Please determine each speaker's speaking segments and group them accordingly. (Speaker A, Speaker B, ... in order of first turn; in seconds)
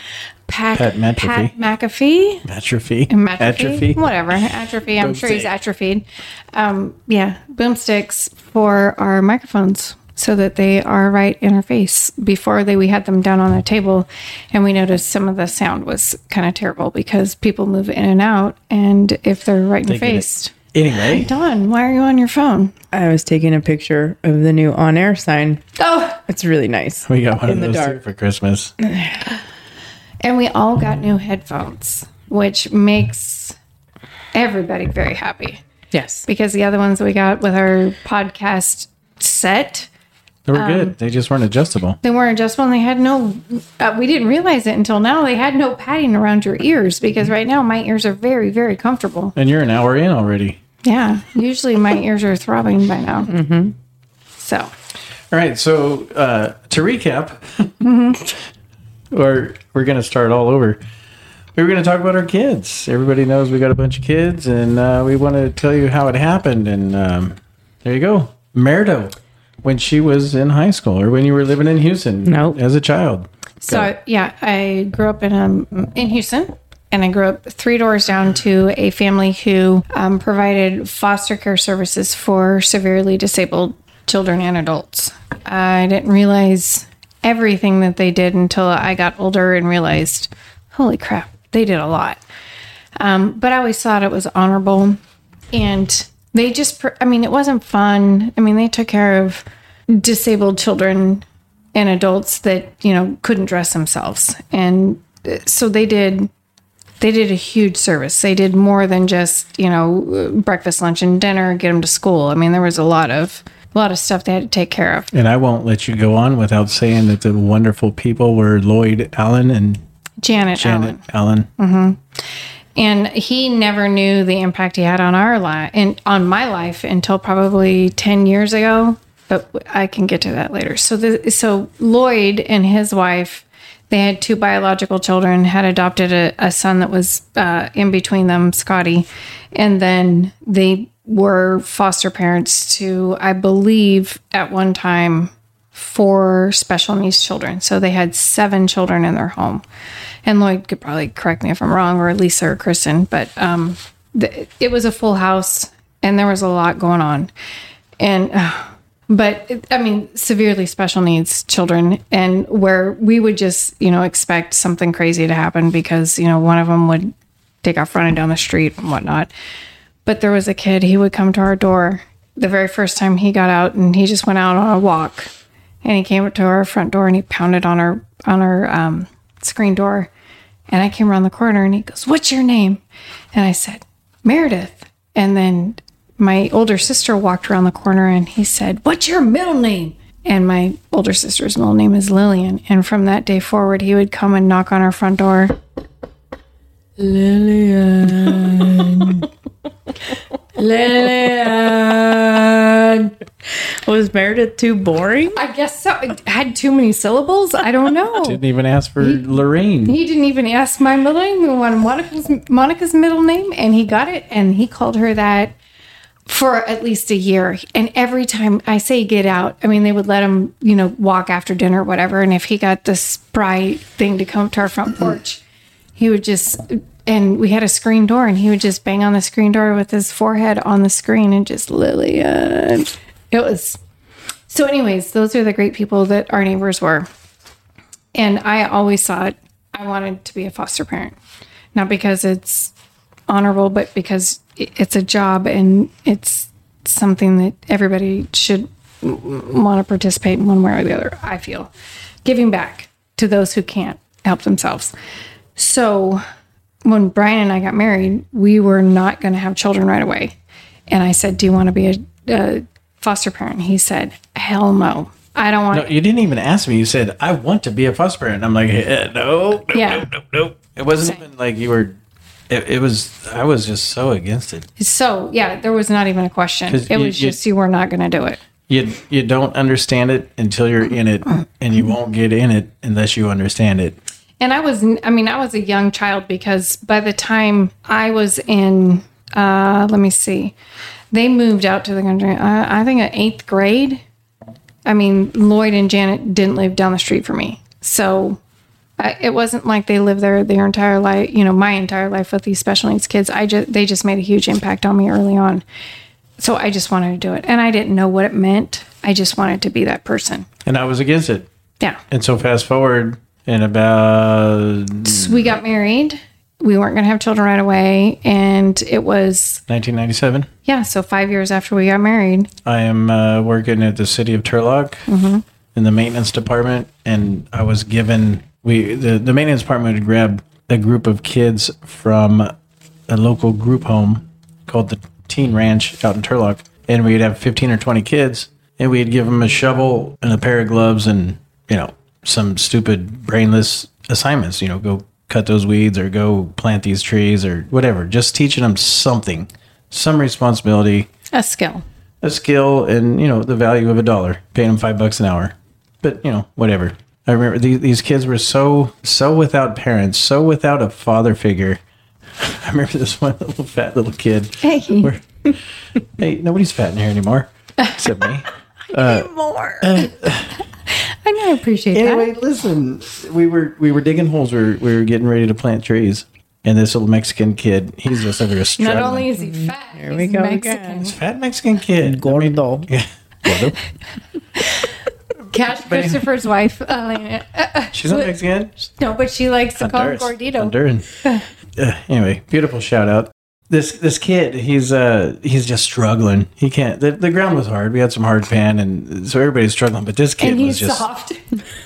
Speaker A: 0.5-2.4, 3.1-22.7, 25.8-26.2, 30.2-33.5, 34.3-35.6, 36.3-39.9, 40.5-40.9, 42.0-49.3, 50.8-53.3, 54.4-54.7, 57.8-58.2, 73.6-92.2, 93.0-95.0, 95.5-106.3, 107.0-115.1, 120.2-121.0, 121.6-122.0, 122.8-149.6, 150.2-157.3, 158.0-169.3, 170.0-175.3, 175.8-180.1, 180.7-182.8, 183.3-195.6, 205.3-208.4, 209.8-215.6, 216.3-225.4, 226.0-233.8, 234.5-237.1, 238.1-241.2, 241.7-242.7, 243.3-251.7, 252.2-254.9, 255.6-256.2, 256.8-260.3, 260.9-265.9, 269.7-270.1, 274.8-278.4, 284.4-290.5, 291.1-294.0, 294.9-298.4, 299.0-305.6, 306.4-310.5, 315.0-319.6, 320.6-322.5, 325.1-325.4, 351.3-351.8, 364.6-365.1, 368.9-370.1, 370.9-372.4, 378.8-381.1, 385.5-388.3, 389.0-391.4, 400.4-401.5
Speaker B: 0.7-1.5, 2.4-4.1, 5.0-5.5, 19.9-21.3, 27.1-28.7, 40.5-42.0, 49.4-50.6, 55.3-58.4, 59.1-60.8, 61.5-73.9, 115.1-119.8, 120.5-121.5, 208.2-209.9, 265.7-272.0, 272.5-274.7, 276.7-277.4, 278.7-284.0, 310.6-311.5, 312.1-315.6, 319.7-320.5, 322.6-325.1, 325.7-332.5, 333.1-351.1, 352.2-361.8, 362.4-365.2, 366.2-369.3, 369.8-370.6, 371.9-379.3, 381.0-383.8, 385.7-386.3, 387.9-388.9, 389.8-391.1, 391.8-401.0
Speaker C: 22.9-25.6, 26.3-28.0, 28.8-29.3, 35.9-36.2, 53.3-53.7, 72.2-72.6, 197.0-199.3, 200.6-205.4, 379.4-381.1, 382.0-382.9